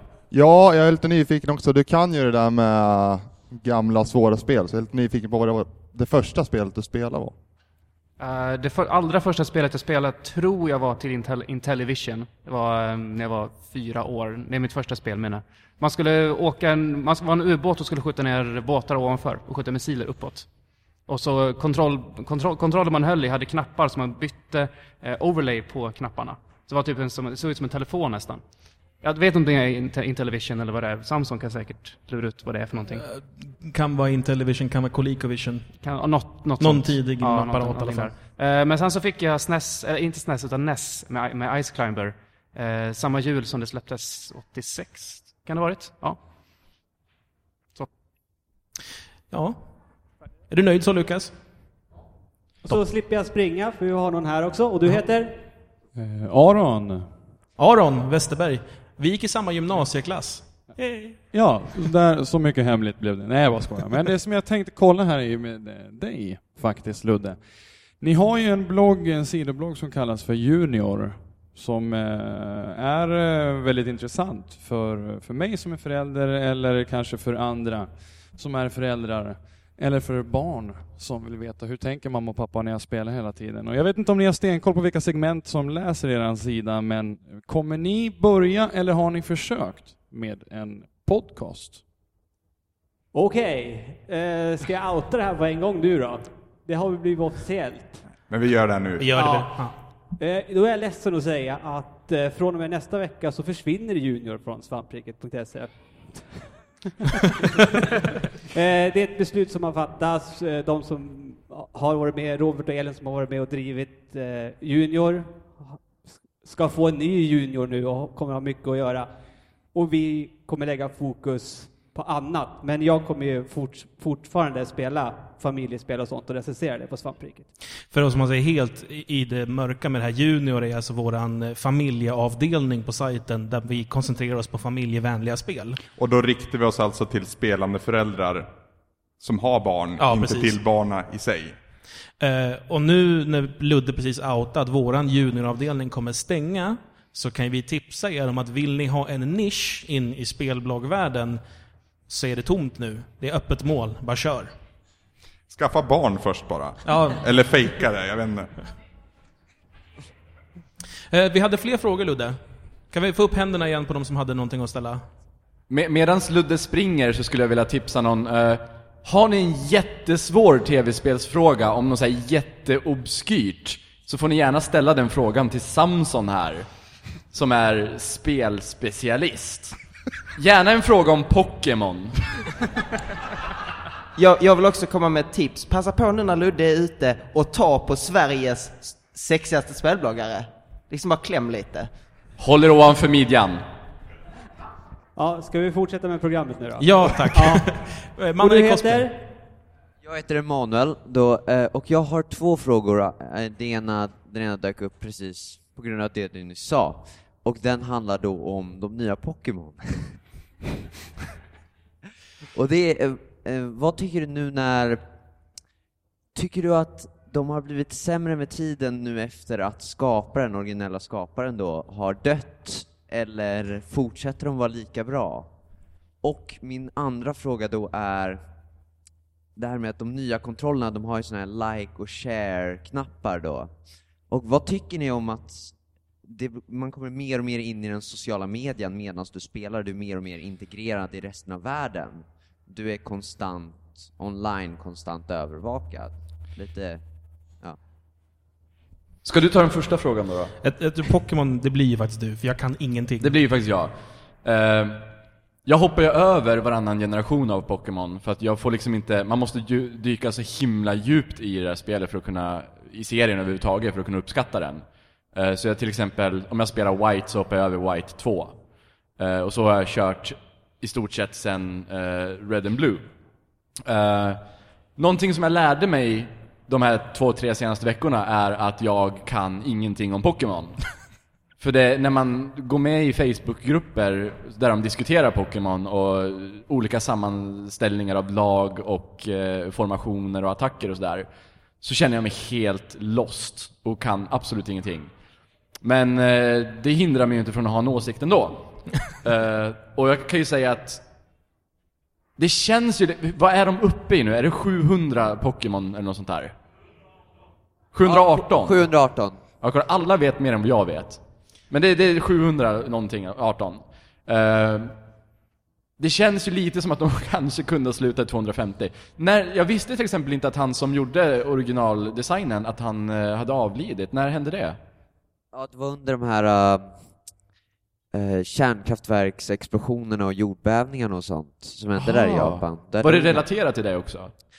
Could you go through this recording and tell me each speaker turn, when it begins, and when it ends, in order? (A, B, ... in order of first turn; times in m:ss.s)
0:00.3-0:07.4 A
0:08.2-0:33.0 B
0:33.0-0:35.7 C
0:35.8-0:46.2 B
0:36.6-0:38.2 C
0:49.3-0:51.3 C
0:52.6-0:55.4 D
0:55.9-0:57.2 E
0:57.6-1:00.6 C
1:01.3-1:31.8 E
1:33.1-1:38.0 D
1:38.3-1:39.1 F
1:39.0-1:39.8 C
1:39.2-1:46.6 D
1:47.2-1:47.6 D
1:48.5-1:59.1 D
1:59.7-2:07.5 D
2:07.9-2:15.8 C
2:16.0-2:18.5 F
2:19.2-2:21.6 F
2:20.0-2:20.6 C
2:22.2-2:31.4 C
2:32.1-2:34.5 C
2:35.5-2:38.5 F
2:36.9-2:37.2 C
2:41.1-2:45.1 C
2:45.7-2:56.7 G
2:57.3-2:59.8 G
3:00.4-3:02.3 G
3:04.2-3:11.9 H
3:12.4-3:13.6 G
3:15.2-3:17.7 D
3:16.8-3:19.1 C
3:18.4-3:19.2 D
3:20.0-3:29.9 I
3:32.6-3:35.0 I
3:36.4-3:45.5 I
3:46.2-3:48.4 I
3:49.6-4:07.8 I
4:09.2-4:10.5 G
4:10.6-4:13.4 C
4:13.2-4:15.1 G
4:15.6-4:28.6 G
4:29.2-4:33.1 G
4:33.8-4:34.4 G
4:35.0-4:40.8 G
4:41.6-4:51.3 G
4:51.8-4:55.1 G
4:55.8-5:01.0 G
5:02.4-5:06.5 G
5:07.9-5:08.9 G
5:08.0-5:09.4 I
5:09.6-5:15.0 G
5:16.0-5:24.8 G
5:25.5-5:27.1 I
5:28.1-5:33.4 I
5:32.0-5:34.3 G